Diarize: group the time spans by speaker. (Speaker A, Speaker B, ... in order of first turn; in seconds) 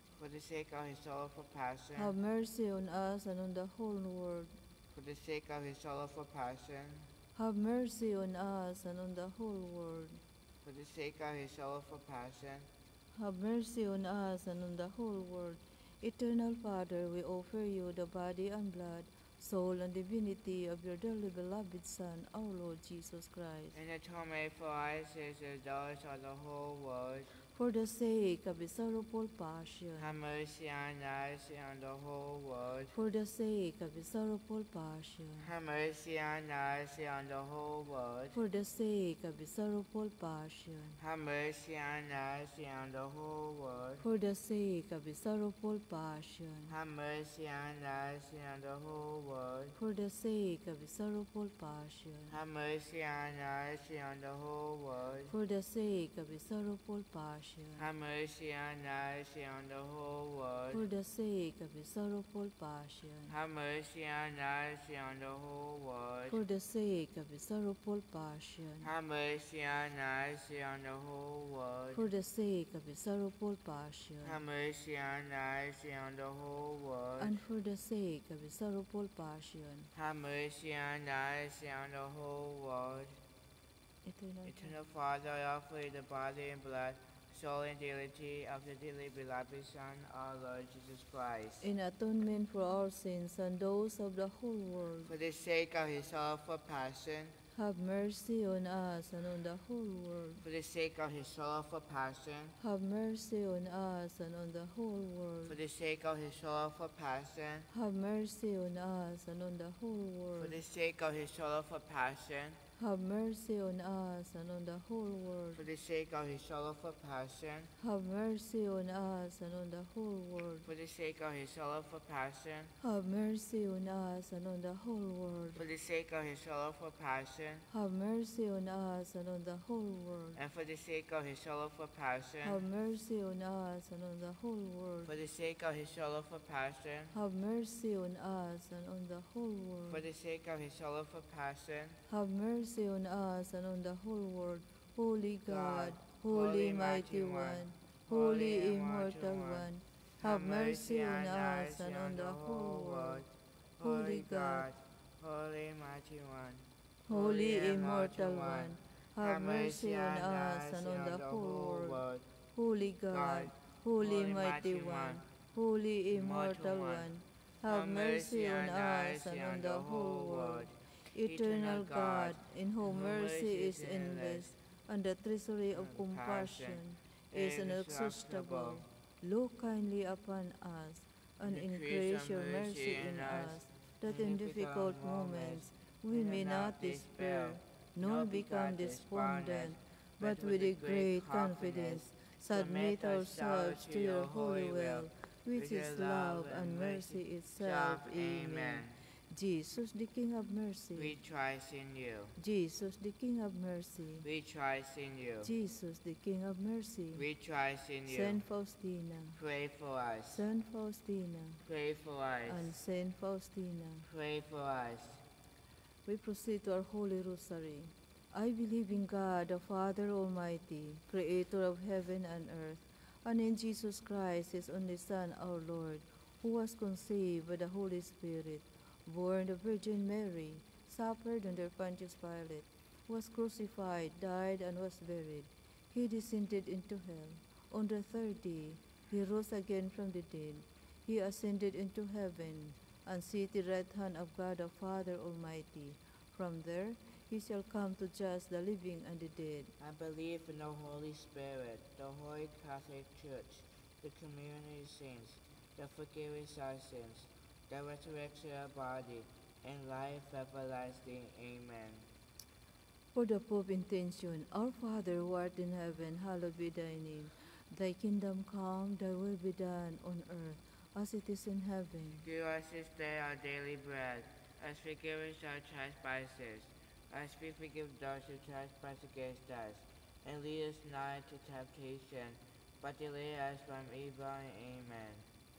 Speaker A: 0.2-2.1, 4.9-7.1, 10.6-12.7, 23.7-27.3, 30.0-32.9, 35.4-38.4, 41.0-44.0, 46.7-49.8, 52.3-55.3, 57.8-60.8, 63.3-66.4, 68.8-72.0, 74.2-77.4, 79.9-83.2, 84.5-91.7, 95.0-97.4, 100.4-102.5, 105.5-107.7, 110.4-112.6, 115.5-117.7, 120.6-122.7, 125.5-127.7, 130.4-132.6, 135.1-137.1, 139.9-142.0, 145.5-149.7, 150.2-153.3, 153.8-162.2, 163.1-165.2, 166.1-167.1, 167.6-174.5, 175.7-178.8, 181.4-198.9, 200.9-202.3, 204.2-205.5, 207.2-208.4, 209.4-210.4, 211.7-212.7, 214.1-215.2, 249.8-262.1, 272.2-285.2
Speaker B: 2.0-4.5, 7.4-10.2, 13.1-23.8, 27.5-30.1, 32.9-35.5, 38.3-41.0, 44.0-46.7, 49.8-52.4, 55.3-57.9, 60.7-63.3, 66.3-68.9, 71.9-74.4, 77.2-79.9, 84.0-84.8, 91.6-95.1, 97.5-100.4, 102.6-105.6, 107.7-110.6, 112.8-115.6, 117.8-120.7, 122.8-125.6, 127.7-130.4, 132.4-135.1, 137.1-140.0, 142.1-153.2, 153.8-154.7, 157.1-162.0, 162.5-201.1, 202.4-204.2, 205.4-207.2, 208.1-209.4, 210.3-211.6, 212.5-214.1, 216.1-249.7, 263.1-272.2